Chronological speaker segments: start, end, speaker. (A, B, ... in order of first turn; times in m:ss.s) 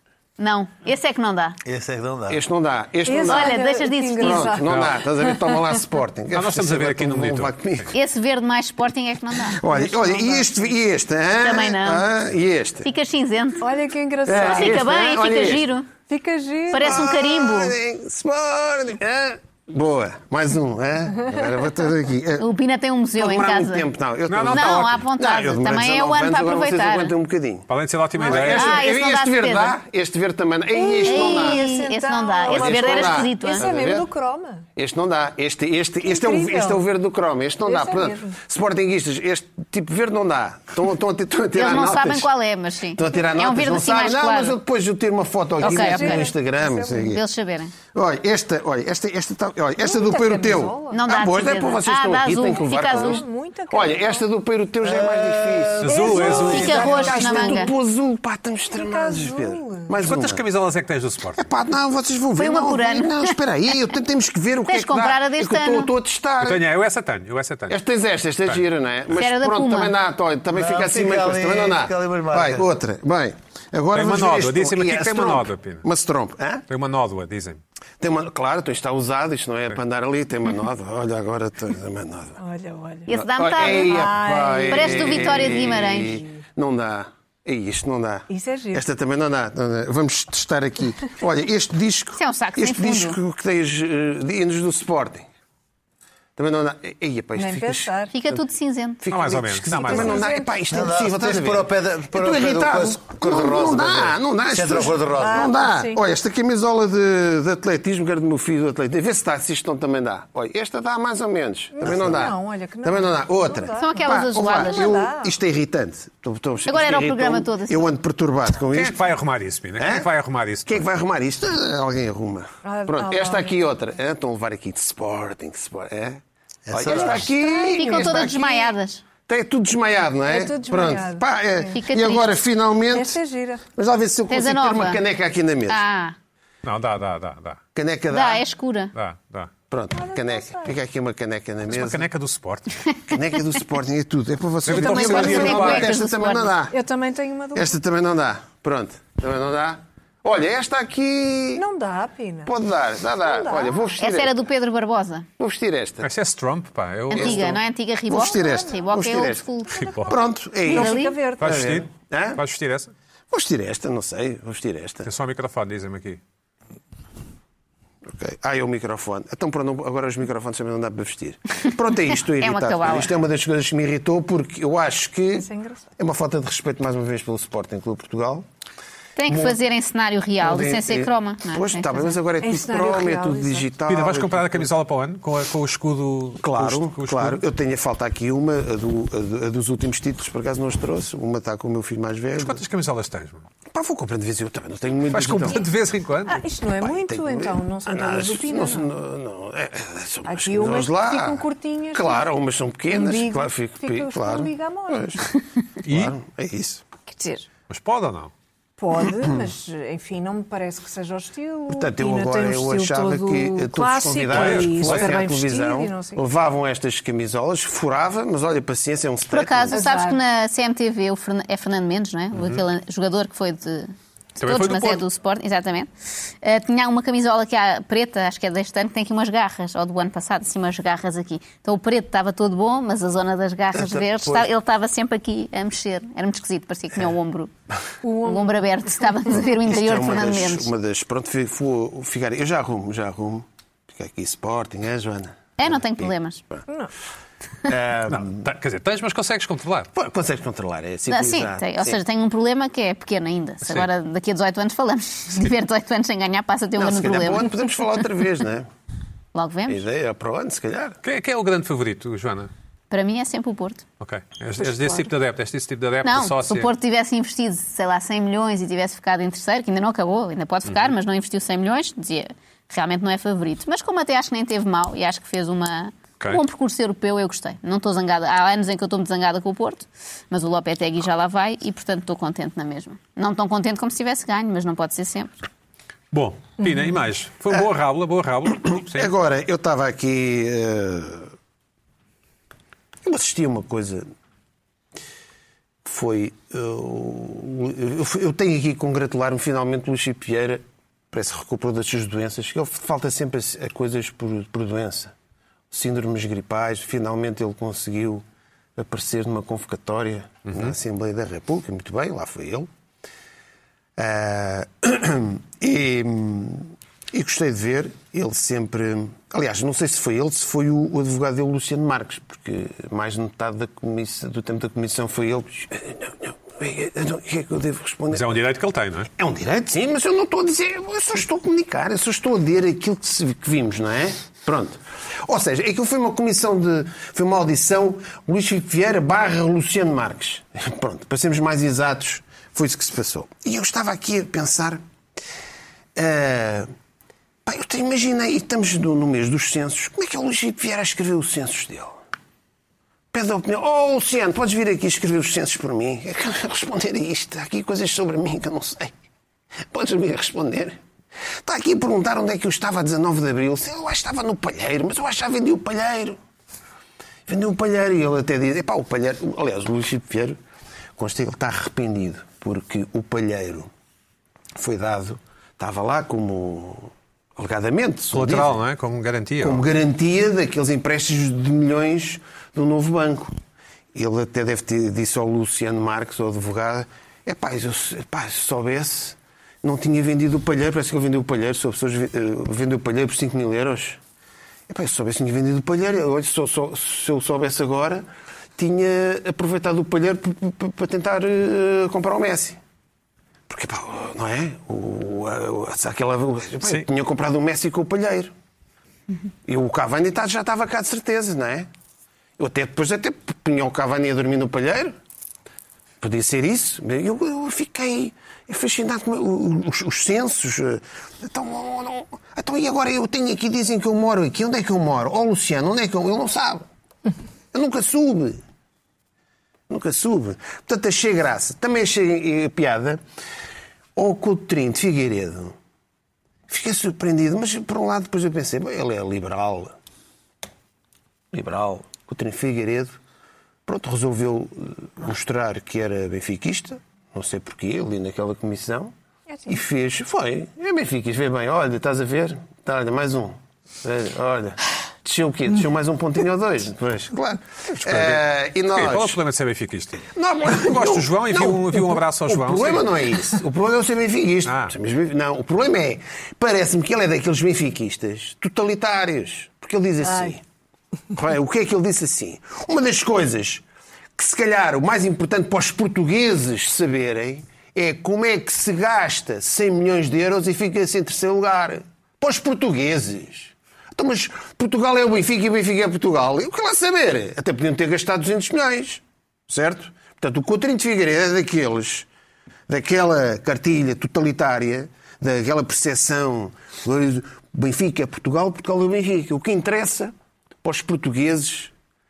0:00.4-0:01.6 A
0:01.6-0:02.4 B
0:02.3-0:03.6 C
0:03.0-0:05.6 D
0:03.2-0:04.5 A
0:04.2-0:07.9 C
0:04.6-0:05.0 E
0:06.3-0:07.9 E
0:07.9-0:09.6 A
0:09.5-0:12.9 C
0:09.7-0:10.6 D
0:11.4-0:12.0 A
0:12.8-0:13.7 A
0:13.6-0:15.0 D
0:14.2-0:15.7 C
0:14.4-0:15.9 A
0:16.1-0:17.1 D
0:16.7-0:17.7 A
0:16.8-0:22.5 C
0:22.4-0:23.9 A
0:23.2-0:27.7 C
0:24.3-0:25.0 E
0:24.4-0:27.1 A
0:27.7-0:28.8 E
0:28.2-0:28.5 D
0:28.2-0:31.6 C
0:28.5-0:29.8 A
0:30.7-0:34.7 D
0:31.0-0:33.6 A
0:32.5-0:34.1 C
0:34.8-0:42.3 C
0:36.0-0:36.8 D
0:37.6-0:38.4 D
0:41.5-0:44.6 A
0:42.9-0:47.2 C
0:45.6-0:46.3 A
0:45.6-0:47.2 D
0:47.0-0:47.7 A
0:47.9-1:00.4 C
0:49.8-0:51.0 D
0:50.9-0:53.2 A
0:52.5-0:54.2 D
0:54.8-0:57.1 B
0:55.8-0:57.0 E
0:55.8-0:57.7 D
0:56.2-0:57.7 A
0:58.7-0:59.9 D
1:00.0-1:01.4 E
1:01.4-1:06.6 C
1:02.4-1:03.4 A
1:04.7-1:05.9 A
1:06.4-1:07.8 E
1:07.7-1:16.6 C
1:09.2-1:09.9 A
1:10.5-1:12.6 B
1:13.9-1:15.8 E
1:16.7-1:17.6 E
1:18.0-1:22.4 C
1:22.4-1:26.2 D
1:23.1-1:24.1 A
1:23.1-1:35.3 C
1:24.7-1:26.2 A
1:28.3-1:28.8 D
1:32.2-1:33.2 A
1:36.4-1:38.4 C
1:37.4-1:38.1 D
1:38.1-1:39.0 A
1:39.0-1:59.0 C
1:39.1-1:40.2 E
1:39.7-1:40.6 D
1:40.7-1:45.5 B
1:45.2-1:46.0 D
1:51.7-1:55.3 D
1:53.8-1:55.0 A
1:56.6-1:57.9 A
1:58.7-2:00.9 E
1:59.8-2:00.1 C
2:00.6-2:08.7 C
2:02.6-2:03.5 D
2:06.7-2:07.3 B
2:06.9-2:07.2 E
2:07.3-2:08.4 D
2:07.7-2:09.0 A
2:09.3-2:13.2 C
2:10.3-2:11.8 D
2:11.7-2:12.3 A
2:12.9-2:13.6 D
2:13.7-2:15.8 C
2:14.3-2:15.0 A
2:15.7-2:16.2 A
2:16.6-2:17.6 E
2:17.7-2:18.4 C
2:18.1-2:18.9 A
2:18.9-2:19.5 E
2:19.7-2:22.1 C
2:19.9-2:20.8 D
2:21.7-2:22.8 E
2:23.1-2:26.8 C
2:24.6-2:25.9 E
2:24.7-2:26.5 A
2:26.7-2:27.7 D
2:27.5-2:31.6 C
2:31.5-2:32.5 D
2:32.4-2:34.4 C
2:33.2-2:33.9 D
2:34.0-2:35.2 A
2:35.4-2:36.1 C
2:36.0-2:37.6 E
2:37.1-2:39.9 A
2:37.1-2:39.4 C
2:38.4-2:38.8 D
2:39.7-2:40.1 E
2:39.8-2:41.6 D
2:40.0-2:42.4 C
2:40.7-2:41.2 A
2:41.4-2:42.9 E
2:43.3-2:45.1 C
2:45.0-2:46.2 E
2:48.0-2:58.5 C
2:52.4-2:53.1 A
2:55.4-2:55.8 D
2:59.2-3:02.2 A
2:59.3-2:59.6 C
3:00.4-3:04.7 C
3:02.4-3:03.7 D
3:03.9-3:07.4 E
3:06.4-3:12.6 C
3:12.4-3:13.4 E
3:13.7-3:15.6 C
3:15.1-3:16.4 E
3:16.3-3:18.9 D
3:16.8-3:25.3 C
3:20.2-3:22.2 D
3:22.9-3:25.2 D
3:25.8-3:26.1 E
3:25.8-3:26.8 C
3:27.1-3:27.5 D
3:27.7-3:28.3 E
3:28.8-3:36.2 D
3:31.7-3:39.8 C
3:34.3-3:35.1 E
3:39.3-3:45.9 A
3:39.7-3:40.2 D
3:42.4-3:42.6 E
3:44.4-3:45.0 E
3:46.4-3:57.5 A
3:53.7-3:54.5 C
3:58.0-3:59.1 D
3:58.2-4:00.7 A
3:59.7-4:06.6 C
4:05.6-4:06.4 A
4:07.6-4:08.5 C
4:08.1-4:09.9 E
4:09.9-4:12.0 C
4:11.1-4:17.6 A
4:13.6-4:13.9 E
4:16.8-4:18.7 C
4:19.3-4:19.8 A
4:19.7-4:21.0 C
4:21.0-4:22.5 E
4:22.9-4:23.8 A
4:24.0-4:26.7 E
4:24.6-4:25.1 D
4:26.0-4:45.3 A
4:46.1-4:49.1 E
4:48.6-4:51.3 C
4:53.0-4:54.1 C
4:55.8-5:05.1 C
5:05.7-5:08.2 C
5:08.8-5:12.7 C
5:10.4-5:10.7 E
5:14.0-5:28.3 C
5:28.1-5:29.1 E
5:29.2-5:44.8 C
5:45.9-5:46.7 C
5:47.4-5:52.0 C
5:53.1-5:58.9 C
5:59.7-6:00.8 C
6:01.4-6:06.2 C
6:07.3-6:10.4 C
6:11.0-6:13.7 C
6:14.6-6:18.5 C
6:18.1-6:19.6 E
6:19.4-6:23.3 C
6:23.9-6:34.0 C
6:34.7-6:38.0 C
6:38.6-6:42.6 C
6:43.5-6:48.3 C
6:49.4-6:51.7 C
6:52.4-6:55.0 C
6:56.0-7:06.6 C
7:07.5-7:08.4 C
7:09.7-7:13.0 C
7:14.0-7:15.6 C
7:16.5-7:19.7 C
7:21.3-7:23.0 C
7:23.6-7:28.9 C
7:29.5-7:39.2 C
7:37.7-7:42.9 E
7:40.0-7:50.4 C
7:44.4-7:44.7 E
7:51.1-7:53.6 C
7:54.2-8:12.1 C
8:12.7-8:21.7 C